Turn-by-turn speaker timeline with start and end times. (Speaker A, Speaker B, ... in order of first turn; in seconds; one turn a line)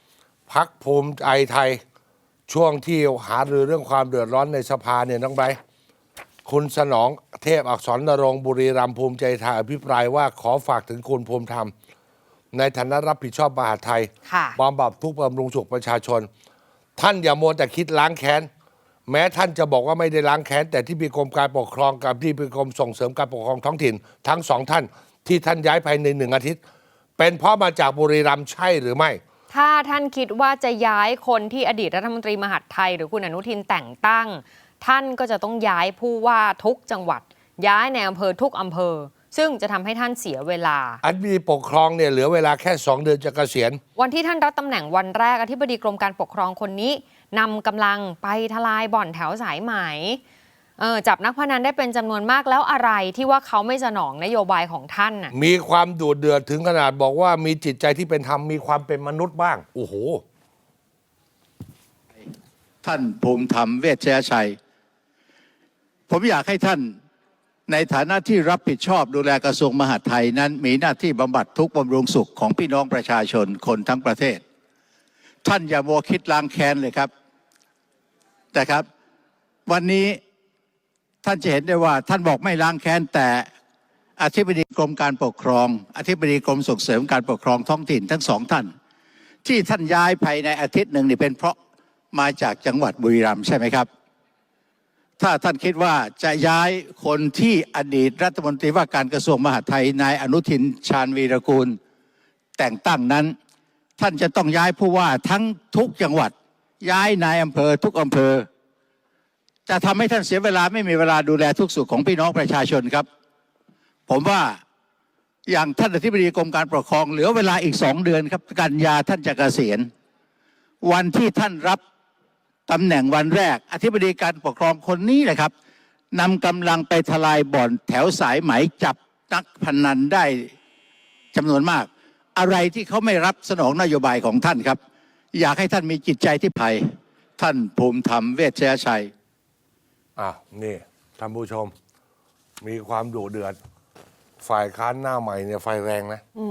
Speaker A: 0.5-1.8
Speaker A: 2.5-5.6
Speaker A: 6.4-11.7
Speaker A: 12.5-16.3
Speaker B: 14.2-14.6
Speaker A: 17.0-18.5
Speaker A: 19.1-26.6
Speaker A: 27.2-29.2
Speaker B: 29.5-41.0
Speaker A: 41.0-43.8
Speaker B: 44.0-50.2
Speaker B: 50.8-55.3
Speaker A: 55.3-60.2
Speaker C: 62.8-64.6
Speaker C: 66.1-66.9
Speaker C: 67.7-74.4
Speaker C: 75.4-77.1
Speaker C: 78.5-78.8
Speaker C: 79.7-80.2
Speaker C: 81.2-83.5
Speaker C: 84.2-88.7
Speaker C: 89.4-91.5
Speaker C: 92.1-93.9
Speaker C: 95.2-101.8
Speaker C: 102.6-103.3
Speaker C: 104.0-108.5
Speaker C: 109.7-113.0
Speaker C: 114.1-114.6
Speaker C: 115.5-119.9
Speaker C: 120.8-121.8
Speaker C: 122.7-125.5
Speaker C: 126.1-130.5
Speaker C: 131.3-134.8
Speaker C: 135.3-136.8
Speaker C: 137.4-139.1
Speaker A: 140.2-141.7
Speaker A: 142.6-143.6
Speaker A: 144.4-146.2